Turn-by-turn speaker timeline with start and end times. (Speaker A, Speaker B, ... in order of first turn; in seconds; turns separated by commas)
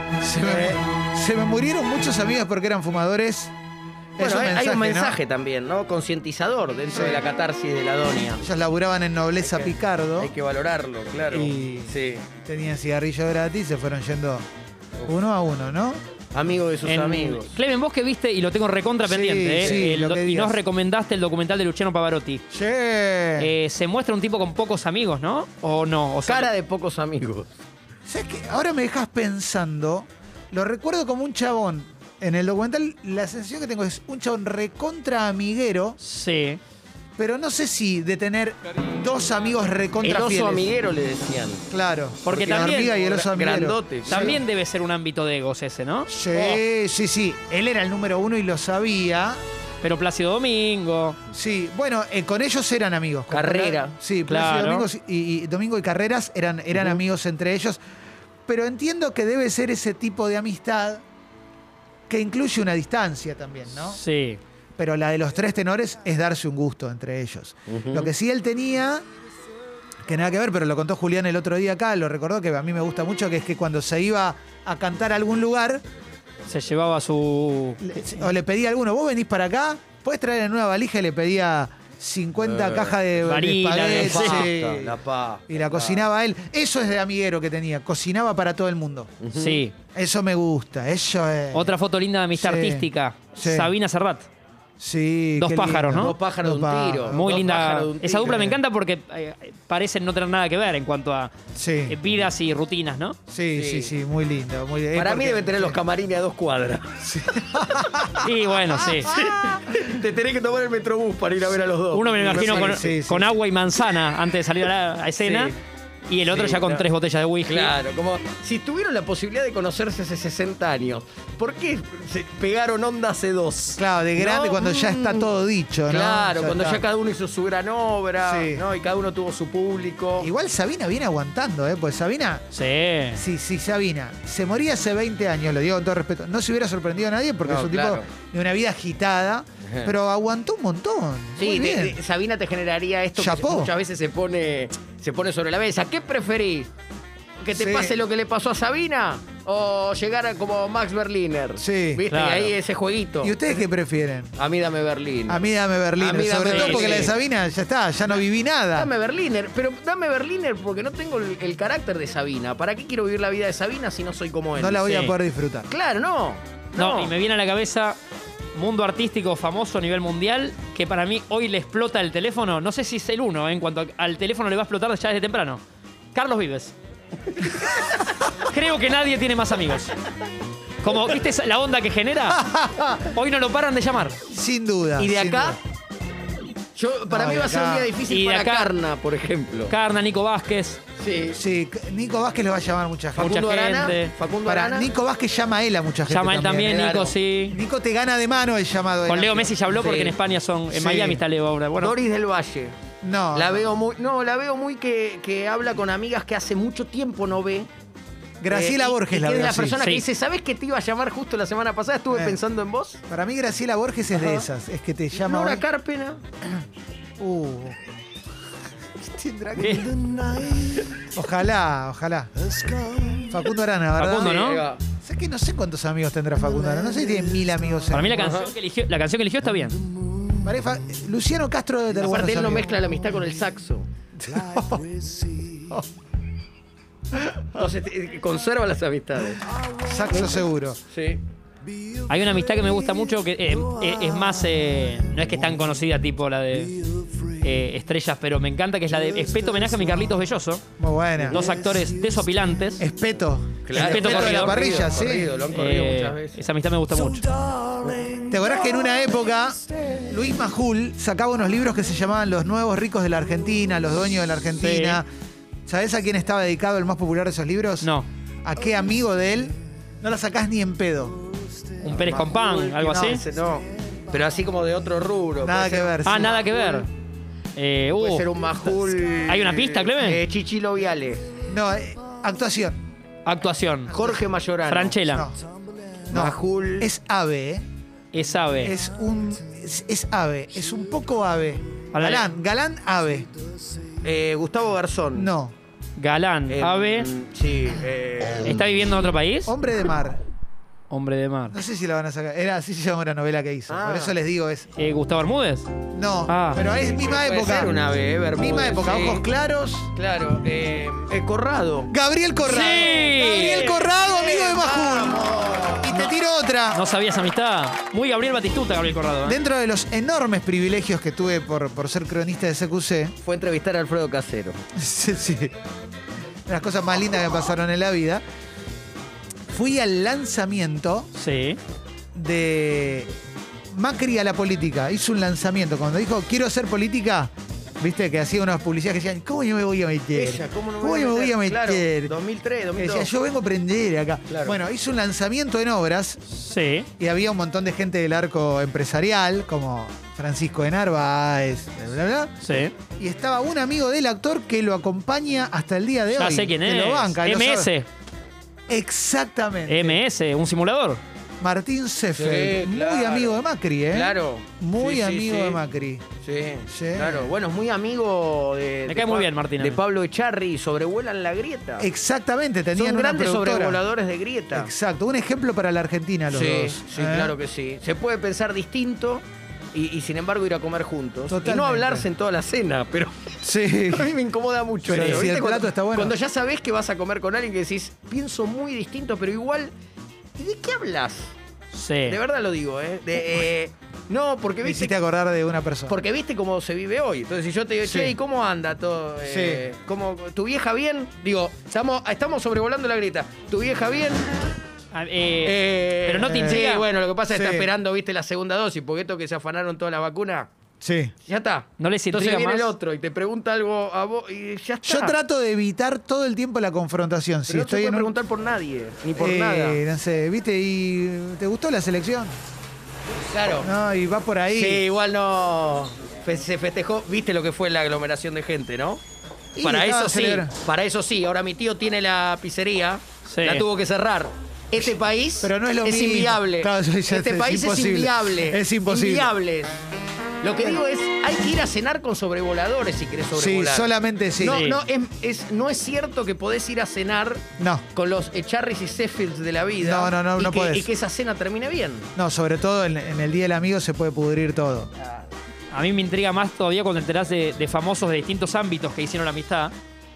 Speaker A: 0.2-3.5, Speaker B: 0.4-0.8, Speaker A: 4.2-5.2, Speaker B: 4.2-8.4, Speaker A: 6.9-7.2, Speaker A: 8.4-10.3, Speaker B: 9.4-12.3, Speaker A: 11.3-14.5, Speaker A: 15.1-16.0, Speaker B: 16.3-17.6, Speaker C: 16.9-22.4, Speaker A: 19.0-20.6, Speaker A: 22.5-23.5, Speaker C: 23.4-26.5, Speaker B: 26.3-27.5, Speaker A: 28.1-36.0, Speaker C: 36.0-36.6, Speaker A: 37.2-40.7, Speaker B: 40.0-41.6, Speaker A: 41.7-44.4, Speaker C: 42.2-43.0, Speaker B: 42.3-44.4, Speaker C: 44.1-46.1, Speaker A: 46.1-49.4, Speaker C: 49.8-51.2, Speaker A: 51.3-57.8, Speaker B: 53.3-54.0, Speaker C: 54.3-54.9, Speaker A: 58.5-61.0, Speaker A: 62.1-64.0, Speaker C: 63.9-64.4, Speaker A: 64.8-69.0, Speaker B: 67.7-68.1, Speaker A: 70.0-75.8, Speaker C: 76.5-78.0, Speaker A: 77.8-85.0, Speaker B: 82.4-83.0, Speaker C: 83.2-84.5, Speaker B: 83.8-86.0, Speaker A: 85.5-89.1, Speaker B: 89.2-89.6, Speaker C: 89.3-89.7, Speaker A: 90.0-91.8, Speaker C: 91.5-94.3, Speaker A: 92.3-93.7, Speaker A: 94.8-97.2, Speaker C: 95.4-96.1, Speaker B: 95.9-98.5, Speaker C: 97.1-101.3, Speaker A: 98.3-98.5, Speaker A: 101.6-102.0, Speaker C: 101.9-103.2, Speaker A: 103.3-105.8, Speaker B: 103.5-103.9, Speaker B: 104.9-107.0, Speaker A: 107.0-108.3, Speaker B: 107.7-108.1, Speaker C: 108.2-109.1, Speaker A: 108.8-109.6, Speaker B: 109.0-112.8, Speaker C: 111.9-115.5, Speaker A: 112.3-113.3, Speaker B: 115.2-115.6, Speaker C: 116.1-117.7, Speaker B: 116.3-116.8, Speaker B: 117.5-125.3, Speaker A: 123.8-126.8, Speaker B: 125.9-130.3, Speaker A: 128.2-128.6, Speaker A: 130.2-132.5, Speaker C: 132.5-133.2, Speaker A: 133.1-142.0, Speaker B: 137.4-138.1, Speaker B: 139.6-139.9, Speaker B: 141.4-146.7, Speaker A: 143.2-143.7, Speaker B: 147.4-153.6, Speaker A: 147.5-147.9, Speaker A: 151.6-152.1, Speaker C: 152.1-152.5, Speaker A: 153.2-154.3, Speaker B: 154.4-157.1, Speaker A: 155.3-158.9, Speaker C: 156.4-157.1, Speaker B: 158.7-165.0, Speaker A: 164.6-165.7, Speaker C: 164.9-165.1, Speaker B: 165.7-167.1, Speaker C: 166.8-168.0, Speaker C: 168.6-175.6, Speaker C: 176.1-176.7, Speaker C: 178.4-179.9, Speaker C: 180.8-182.4, Speaker A: 182.3-183.1, Speaker C: 183.1-184.2, Speaker A: 184.3-185.6, Speaker B: 185.0-185.6, Speaker B: 186.8-189.7, Speaker A: 187.1-187.9, Speaker C: 188.1-188.7, Speaker C: 189.7-190.8, Speaker B: 191.0-191.4, Speaker A: 191.3-193.4, Speaker B: 193.2-194.9, Speaker C: 193.2-194.1, Speaker A: 194.4-196.8, Speaker C: 196.1-197.6, Speaker B: 196.6-197.1, Speaker A: 197.5-199.5, Speaker C: 199.1-201.9, Speaker B: 199.7-200.1, Speaker A: 200.7-201.2, Speaker B: 201.8-202.8, Speaker A: 203.0-203.7, Speaker B: 203.3-207.7, Speaker A: 208.4-209.8, Speaker B: 208.5-213.0, Speaker A: 212.1-212.4, Speaker A: 213.1-215.6, Speaker B: 214.1-214.5, Speaker B: 215.2-216.2, Speaker A: 217.2-217.8, Speaker A: 219.0-222.3, Speaker C: 219.6-219.9, Speaker B: 220.6-220.9, Speaker A: 223.2-224.5, Speaker C: 224.0-224.6, Speaker B: 224.1-224.8, Speaker A: 225.0-228.3, Speaker C: 227.9-229.8, Speaker B: 228.1-228.5, Speaker A: 230.4-232.8, Speaker B: 231.9-233.9, Speaker A: 234.2-234.9, Speaker B: 237.5-239.4, Speaker A: 239.8-240.8, Speaker B: 240.9-241.2, Speaker C: 242.1-246.8, Speaker C: 247.4-250.7, Speaker A: 250.8-251.5, Speaker C: 251.3-252.8, Speaker A: 252.8-255.3, Speaker B: 253.6-256.4, Speaker C: 253.7-254.7, Speaker C: 255.5-257.4, Speaker B: 257.8-258.2, Speaker A: 258.3-265.1, Speaker C: 264.6-265.0, Speaker A: 265.7-267.9, Speaker A: 268.4-271.2, Speaker C: 271.8-273.2, Speaker B: 272.0-276.9, Speaker A: 272.9-273.2, Speaker A: 275.4-276.4, Speaker C: 276.1-276.9, Speaker C: 277.6-278.7, Speaker B: 277.9-281.2, Speaker C: 279.3-280.2, Speaker A: 281.5-282.8, Speaker C: 283.3-283.9, Speaker B: 283.9-284.9, Speaker C: 284.7-285.3, Speaker A: 285.1-285.4, Speaker B: 286.1-286.9, Speaker A: 286.1-287.6, Speaker C: 288.1-288.8, Speaker A: 288.6-293.3, Speaker C: 291.9-292.3, Speaker B: 294.0-295.3, Speaker A: 295.1-295.5, Speaker C: 296.0-297.1, Speaker B: 296.5-298.6, Speaker C: 298.4-299.5, Speaker A: 299.5-300.2, Speaker C: 300.9-301.6, Speaker A: 301.5-304.7, Speaker B: 303.7-304.1, Speaker C: 304.8-305.7, Speaker A: 305.9-307.8, Speaker C: 306.3-306.6, Speaker B: 306.7-309.3, Speaker A: 308.4-309.9, Speaker B: 309.9-311.9, Speaker A: 311.9-316.8, Speaker C: 312.4-313.7, Speaker B: 313.0-315.9, Speaker C: 316.7-319.4, Speaker A: 319.3-323.1, Speaker B: 323.2-324.6, Speaker A: 324.8-325.6, Speaker A: 326.5-328.2, Speaker A: 329.5-331.1, Speaker C: 331.1-331.6, Speaker A: 332.1-333.1, Speaker A: 333.7-342.1, Speaker B: 340.1-343.1, Speaker A: 342.8-346.2, Speaker B: 344.3-344.6, Speaker C: 346.3-346.9, Speaker A: 347.0-357.7, Speaker C: 352.4-352.7, Speaker C: 356.1-357.9, Speaker A: 358.7-360.0, Speaker C: 359.7-361.0, Speaker A: 361.4-366.1, Speaker B: 362.1-363.4, Speaker B: 363.9-365.6, Speaker B: 366.2-371.9, Speaker A: 366.7-367.3, Speaker C: 368.9-369.8, Speaker A: 371.8-373.8, Speaker B: 372.8-374.7, Speaker A: 374.5-377.3, Speaker B: 376.3-389.7, Speaker A: 381.3-382.1, Speaker A: 383.4-384.1, Speaker A: 384.9-386.1, Speaker C: 384.9-385.2, Speaker B: 390.4-391.3, Speaker C: 391.7-392.2, Speaker B: 392.1-394.9, Speaker A: 394.6-396.0, Speaker B: 395.9-404.3, Speaker A: 397.8-398.1, Speaker A: 399.2-399.6, Speaker C: 404.9-406.9, Speaker B: 405.4-410.5, Speaker A: 406.3-406.6, Speaker A: 407.3-407.7, Speaker A: 410.8-411.1, Speaker B: 411.3-415.2, Speaker C: 411.8-412.7, Speaker A: 414.8-418.1, Speaker B: 417.5-419.8, Speaker A: 419.1-422.4, Speaker B: 423.3-423.7, Speaker A: 423.6-424.8, Speaker B: 424.5-429.0, Speaker A: 429.6-430.5, Speaker B: 429.6-439.8, Speaker C: 433.3-433.6, Speaker A: 435.4-439.3, Speaker B: 440.4-443.9, Speaker A: 443.3-444.6, Speaker B: 444.4-452.1, Speaker C: 444.4-444.8, Speaker A: 447.6-447.8, Speaker A: 449.8-450.9, Speaker A: 452.1-454.9, Speaker B: 455.0-455.3, Speaker C: 455.7-459.7